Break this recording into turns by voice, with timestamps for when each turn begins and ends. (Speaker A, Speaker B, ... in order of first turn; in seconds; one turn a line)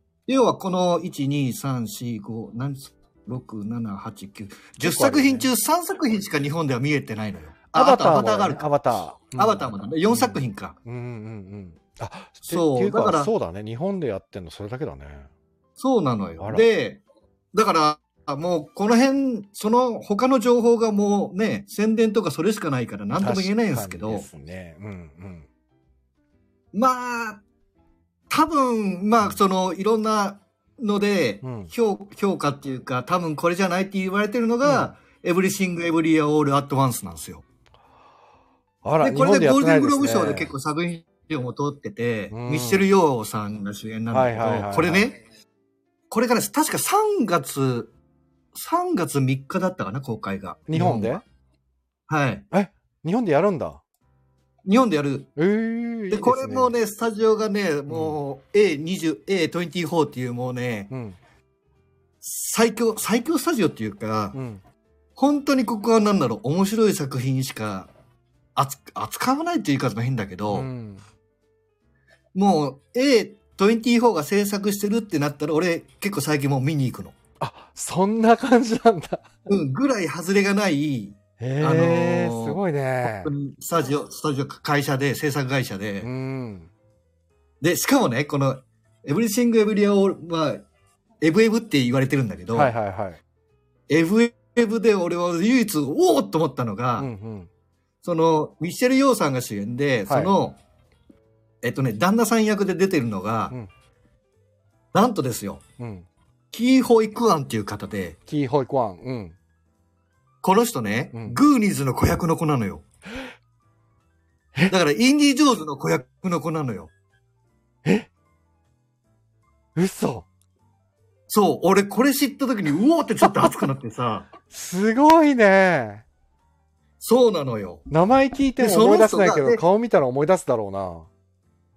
Speaker A: 0.3-8.6
Speaker B: 4.8-5.5
Speaker B: 7.7-15.3
Speaker A: 9.3-10.8
Speaker A: 12.5-13.3
Speaker A: 15.8-17.0
Speaker B: 16.4-16.6
Speaker A: 17.5-24.3
Speaker B: 23.2-25.5
Speaker A: 26.7-27.4
Speaker A: 28.3-37.4
Speaker B: 31.4-31.7
Speaker B: 34.6-34.9
Speaker B: 38.8-40.5
Speaker A: 39.0-45.2
Speaker B: 42.3-42.9
Speaker B: 44.1-45.1
Speaker A: 46.1-47.9
Speaker A: 48.5-51.2
Speaker B: 50.7-51.2
Speaker A: 52.1-52.5
Speaker B: 52.5-53.8
Speaker A: 54.6-55.3
Speaker B: 55.4-56.7
Speaker A: 56.1-60.9
Speaker B: 57.9-58.2
Speaker B: 60.9-61.2
Speaker A: 62.2-64.4
Speaker B: 64.3-64.6
Speaker A: 65.2-67.9
Speaker A: 68.5-70.7
Speaker B: 70.5-71.0
Speaker A: 72.3-77.1
Speaker B: 77.4-79.3
Speaker A: 79.5-86.1
Speaker B: 81.4-83.3
Speaker B: 86.0-86.7
Speaker A: 87.6-90.6
Speaker A: 91.2-92.7
Speaker B: 92.5-93.2
Speaker A: 93.9-97.1
Speaker B: 97.0-97.5
Speaker A: 98.0-100.6
Speaker B: 100.1-100.3
Speaker A: 101.6-103.5
Speaker A: 104.9-105.6
Speaker B: 105.8-106.0
Speaker A: 106.5-108.2
Speaker B: 108.3-109.3
Speaker A: 110.4-112.8
Speaker B: 111.1-111.4
Speaker A: 114.7-116.9
Speaker B: 117.8-118.1
Speaker B: 119.7-120.3
Speaker A: 121.3-124.3
Speaker B: 123.2-123.6
Speaker B: 124.5-126.0
Speaker A: 127.0-127.8
Speaker B: 127.9-131.1
Speaker A: 128.6-129.6